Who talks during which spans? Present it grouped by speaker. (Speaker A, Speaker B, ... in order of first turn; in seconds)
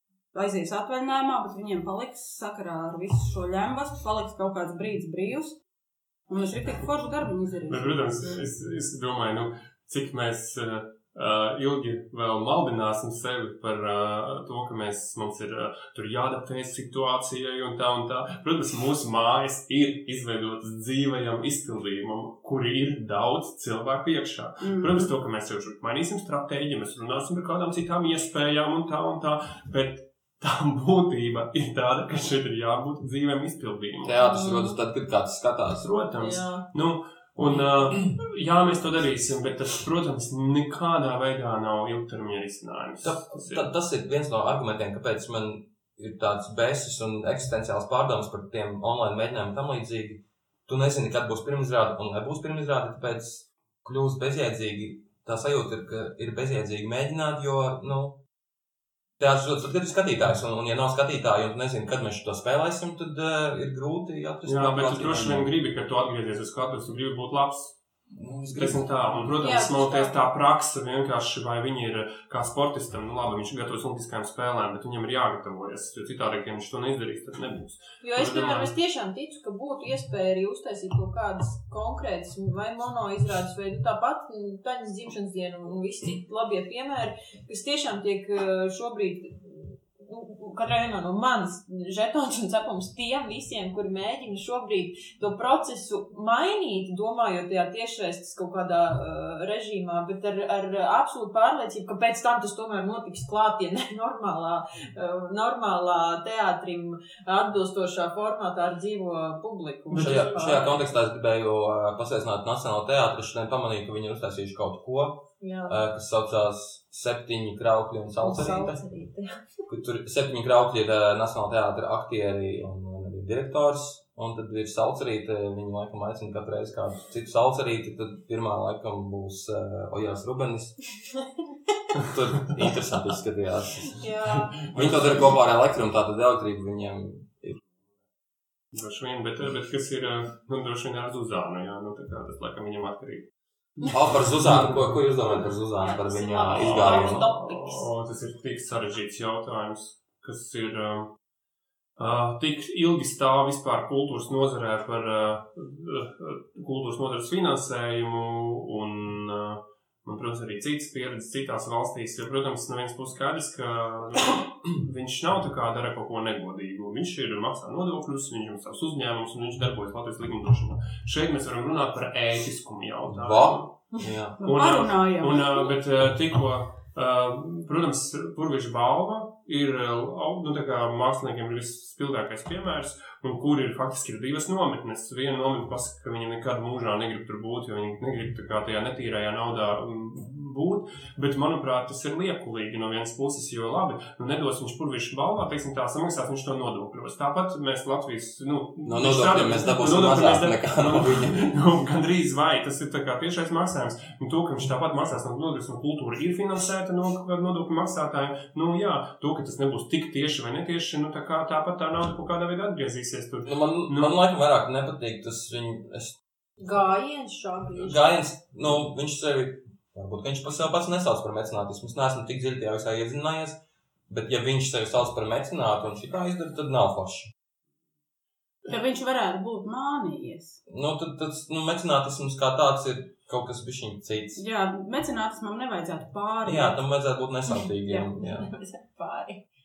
Speaker A: 0.3-5.6, 6.3-7.9, 24.6-25.1, 174.4-175.7, 228.7-230.6, 234.4-236.8
Speaker B: 7.7-34.2, 35.8-43.7, 64.4-67.8, 68.5-78.7, 109.9-110.5, 134.2-135.3, 138.7-143.3, 143.8-145.0, 146.5-151.1, 152.0-173.7, 174.4-214.2
Speaker C: 34.0-35.9, 43.0-58.2, 59.2-65.5, 68.1-68.9, 110.0-118.8, 119.7-130.8, 132.0-134.0, 134.7-137.6, 143.9-147.3, 173.1-174.4, 198.8-201.4, 213.4-216.2, 217.8-227.3, 230.7-234.4, 236.4-238.5
Speaker D: 36.2-36.6, 69.4-70.1, 78.0-110.8, 115.4-115.8, 118.2-119.4, 133.9-134.7, 145.8-147.9, 216.6-218.1, 237.8-239.4